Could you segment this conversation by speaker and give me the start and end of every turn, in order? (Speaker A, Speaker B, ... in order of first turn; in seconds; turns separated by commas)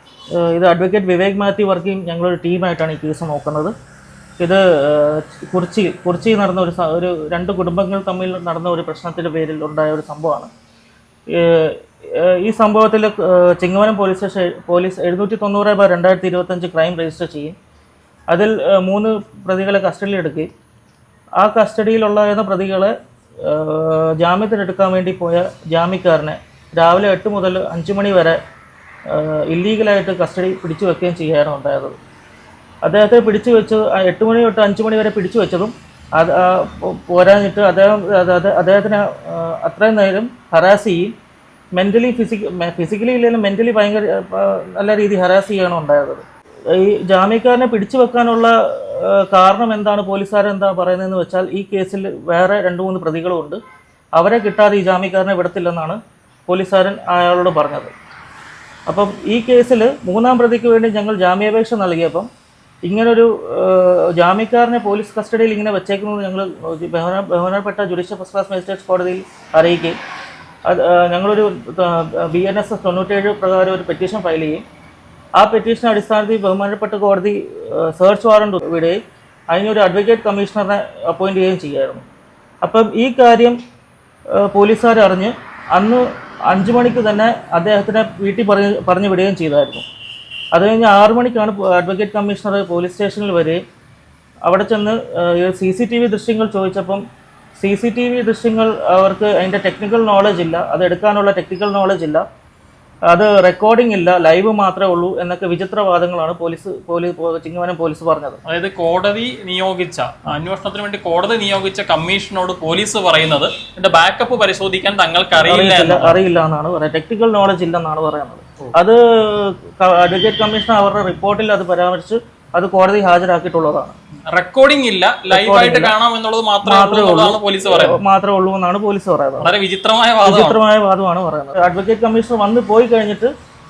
Speaker A: 0.4-3.7, Speaker A: 4.4-10.5, Speaker A: 11.3-17.5, Speaker A: 18.3-20.5, Speaker A: 21.4-22.9, Speaker A: 23.4-28.4, Speaker A: 29.1-31.9, Speaker A: 32.8-41.1, Speaker A: 41.8-53.6, Speaker A: 54.1-57.9, Speaker A: 58.9-62.3, Speaker A: 62.8-70.0, Speaker A: 70.7-74.6, Speaker A: 75.4-79.0, Speaker A: 79.5-82.0, Speaker A: 82.6-83.6, Speaker A: 84.4-89.8, Speaker A: 90.5-93.6, Speaker A: 94.5-97.0, Speaker A: 97.6-102.2, Speaker A: 103.1-108.4, Speaker B: 108.5-116.2, Speaker A: 115.4-123.9, Speaker B: 124.3-128.0, Speaker A: 125.3-125.9, Speaker A: 126.6-129.5, Speaker B: 129.4-130.6, Speaker A: 130.2-133.3